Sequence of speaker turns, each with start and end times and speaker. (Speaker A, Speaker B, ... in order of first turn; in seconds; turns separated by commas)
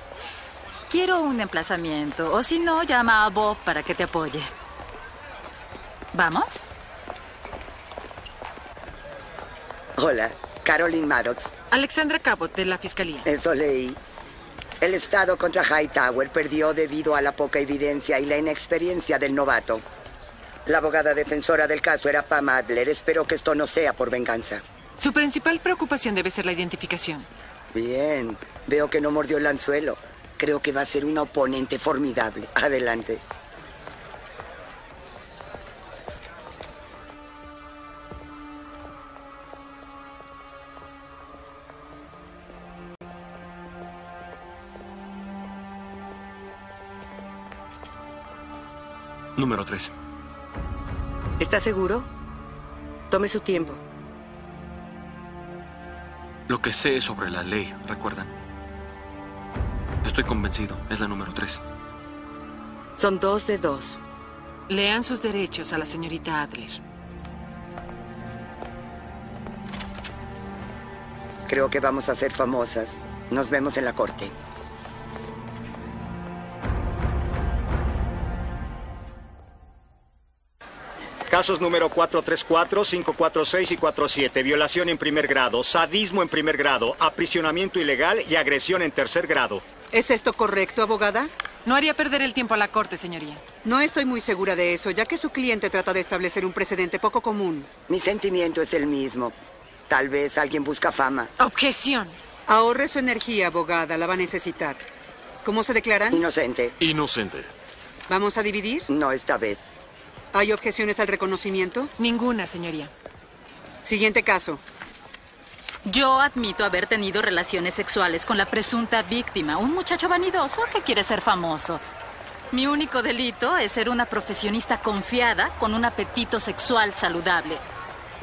Speaker A: 0.9-4.5, Speaker A: 6.1-6.7, Speaker B: 10.0-11.5, Speaker C: 11.7-13.2, Speaker B: 13.2-14.0, Speaker B: 14.8-19.8, Speaker B: 20.6-24.6, Speaker C: 25.0-27.3, Speaker B: 27.7-33.2, Speaker D: 49.4-49.9, Speaker E: 51.4-52.1, Speaker E: 53.1-53.8, Speaker D: 56.5-58.3, Speaker D: 60.0-61.6, Speaker E: 63.0-64.0, Speaker C: 64.7-66.8, Speaker B: 71.5-74.3, Speaker F: 81.3-89.6, Speaker G: 89.9-91.3, Speaker C: 91.6-93.4, Speaker G: 93.6-97.7, Speaker B: 97.9-99.3, Speaker B: 99.9-101.3, Speaker C: 101.4-102.2, Speaker G: 102.5-104.8, Speaker G: 105.4-106.2, Speaker B: 106.1-106.7, Speaker G: 108.1-108.9, Speaker B: 108.9-109.7, Speaker G: 110.3-111.9, Speaker C: 112.0-112.9, Speaker G: 113.8-114.6, Speaker A: 115.8-121.8, Speaker A: 122.5-127.6